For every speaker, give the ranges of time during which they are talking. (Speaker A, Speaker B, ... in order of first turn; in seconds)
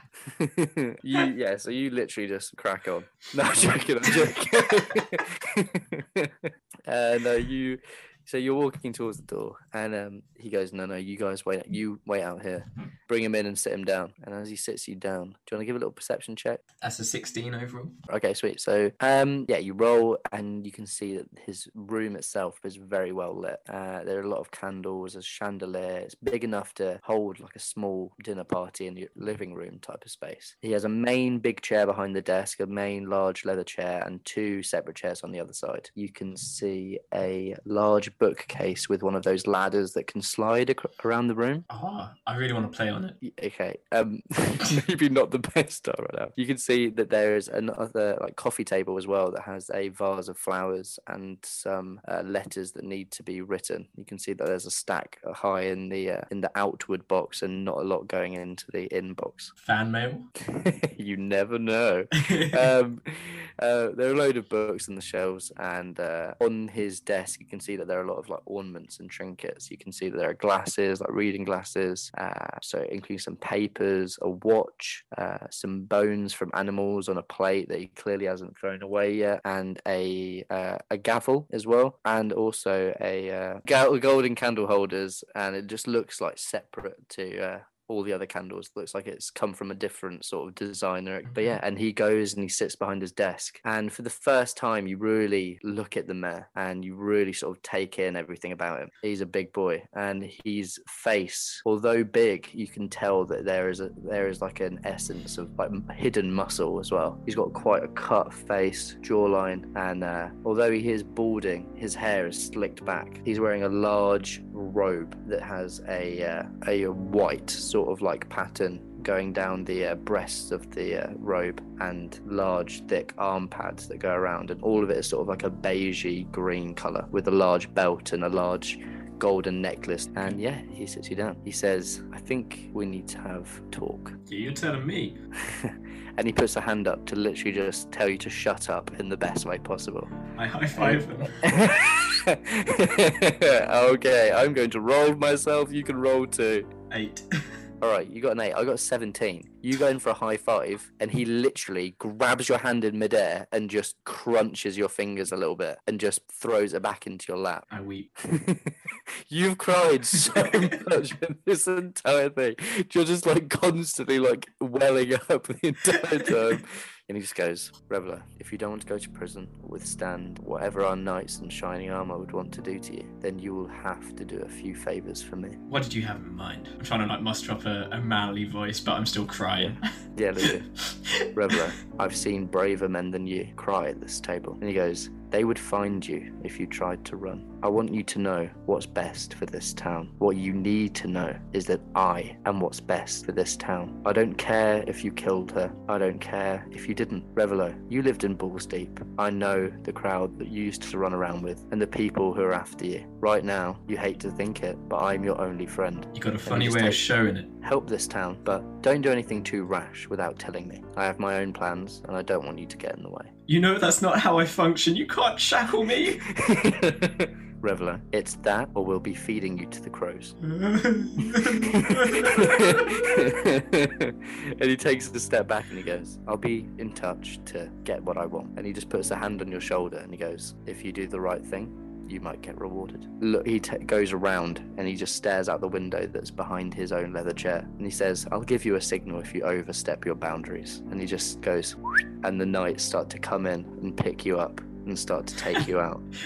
Speaker A: 0.2-16.6, 18.1-41.7, 43.2-59.5, 60.5-134.1, 135.4-140.1, 140.7-146.7, 147.8-157.7, 158.2-175.6, 179.6-180.7, 181.3-207.0, 207.6-213.3, 216.3-220.3, 221.2-246.0
Speaker B: 16.8-17.9, 41.7-43.2, 59.6-60.3, 62.2-62.7, 91.2-91.6, 134.3-135.2, 140.3-141.4, 146.9-147.2, 157.7-158.1, 160.3-160.7, 175.7-179.9, 180.4-181.3, 206.1-207.5, 213.5-216.3, 220.4-223.4